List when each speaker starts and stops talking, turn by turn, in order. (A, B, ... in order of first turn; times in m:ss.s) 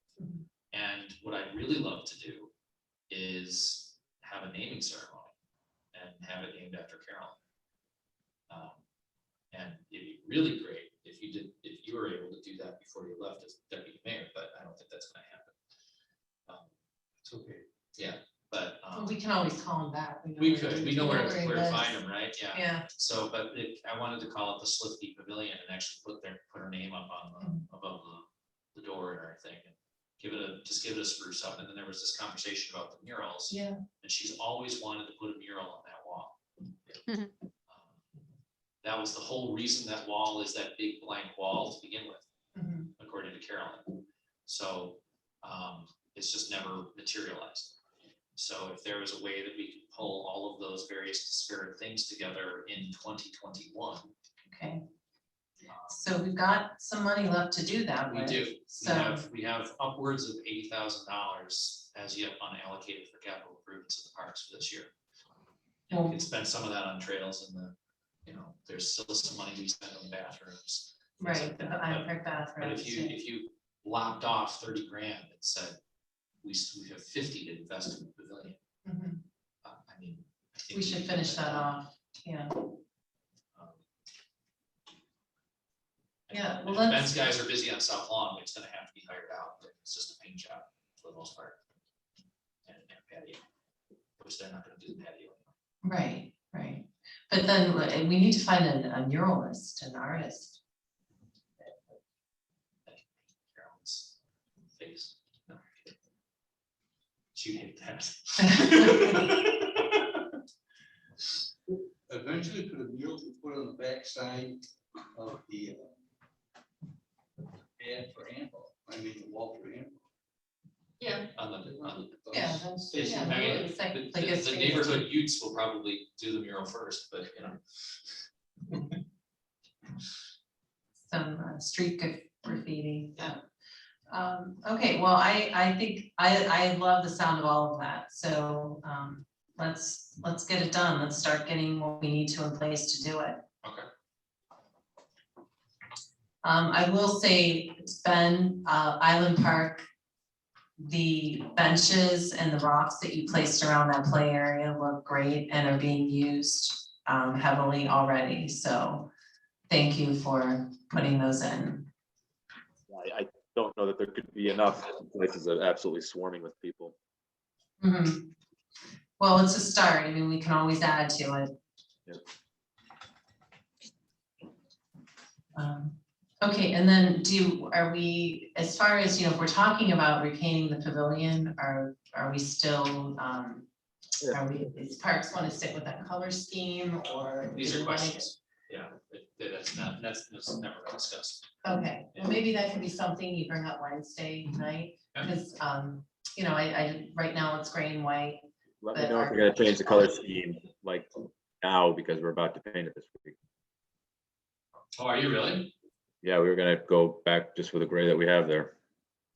0:00.7-0:02.5 A
0:03.1-0:05.3 A
0:05.9-0:07.4 A
0:08.5-0:08.8 A
0:09.5-0:15.6 A
0:17.2-0:17.6 B
0:18.0-0:19.1 A
0:18.9-0:22.0 C
0:20.4-0:37.0 A
0:22.5-0:22.8 C
0:33.5-0:33.8 C
0:37.7-0:38.0 A
0:38.8-0:42.3 A
0:42.6-0:42.9 C
0:43.0-0:47.8 A
0:48.4-0:54.1 A
0:54.5-0:54.8 C
0:55.7-0:56.0 A
0:55.9-0:59.2 C
0:58.1-1:04.9 A
1:05.9-1:07.7 A
1:05.9-1:06.2 C
1:08.2-1:15.8 A
1:11.2-1:13.1 C
1:16.4-1:18.6 A
1:18.8-1:19.2 C
1:19.6-1:21.8 A
1:20.7-1:22.6 C
1:23.6-1:23.8 A
1:26.3-1:31.6 A
1:26.3-1:27.2 C
1:32.6-1:33.4 A
1:34.2-1:35.5 A
1:35.8-1:40.6 C
1:42.9-1:44.1 A
1:44.8-1:46.0 A
1:47.4-1:50.2 A
1:48.7-1:49.2 C
1:52.1-1:56.0 B
1:57.8-2:00.0 B
2:01.4-2:02.1 A
2:01.7-2:03.6 B
2:02.3-2:05.0 C
2:02.9-2:07.6 A
2:11.1-2:13.4 C
2:14.1-2:23.4 C
2:26.4-2:29.8 C
2:30.8-2:39.1 C
2:39.7-2:41.9 C
2:42.9-2:46.9 D
2:47.8-2:48.2 C
2:49.2-2:51.5 C
2:55.6-3:03.7 C
3:04.2-3:08.3 C
3:07.5-3:11.5 A
3:11.6-3:18.4 C
3:18.8-3:23.4 D
3:18.9-3:20.0 C
3:25.0-3:25.7 A
3:26.2-3:28.7 D